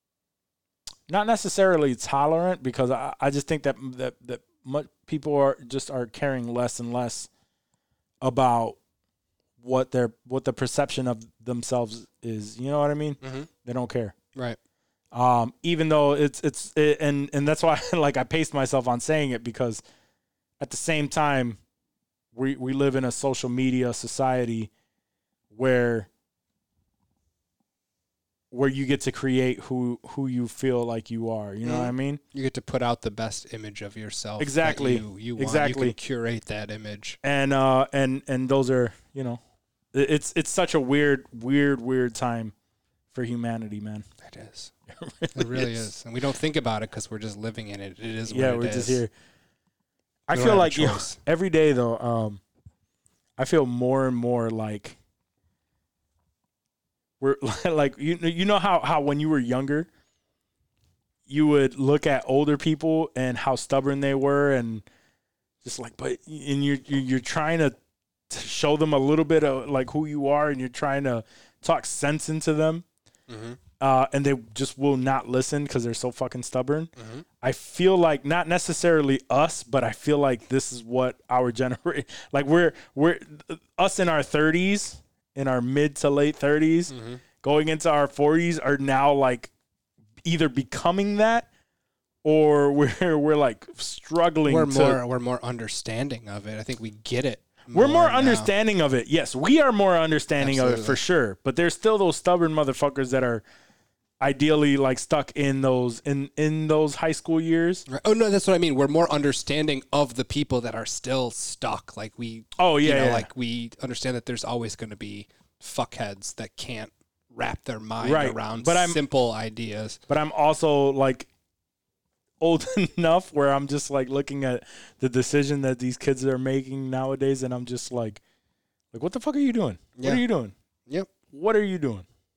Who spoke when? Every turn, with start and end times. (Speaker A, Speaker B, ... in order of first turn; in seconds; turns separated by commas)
Speaker A: 1.1-7.3, Speaker A: 8.2-8.8, Speaker A: 9.6-14.2, Speaker B: 13.2-13.5, Speaker A: 15.1-19.8, Speaker A: 20.6-21.6, Speaker A: 22.3-24.7, Speaker A: 25.5-26.1, Speaker A: 28.5-32.2, Speaker B: 31.6-37.2, Speaker A: 34.4-36.0, Speaker A: 37.2-39.4, Speaker A: 39.9-42.5, Speaker A: 43.1-44.1, Speaker B: 44.2-44.7, Speaker A: 44.9-45.9, Speaker B: 45.3-49.0, Speaker A: 48.3-49.1, Speaker A: 50.3-52.4, Speaker B: 50.3-51.2, Speaker A: 53.4-55.0, Speaker A: 57.2-59.9, Speaker A: 61.3-64.8, Speaker A: 65.6-67.8, Speaker A: 68.3-72.8, Speaker B: 73.3-73.6, Speaker A: 73.8-89.5, Speaker B: 77.0-77.3, Speaker B: 86.9-87.2, Speaker A: 90.2-91.5, Speaker A: 92.2-95.0, Speaker B: 94.5-98.5, Speaker A: 97.7-103.4, Speaker B: 100.4-101.0, Speaker A: 104.2-107.9, Speaker B: 107.9-120.0, Speaker A: 112.6-113.3, Speaker A: 118.0-119.0, Speaker A: 120.1-121.3, Speaker A: 122.4-128.2, Speaker A: 128.9-130.5, Speaker B: 130.0-130.2, Speaker A: 131.3-132.1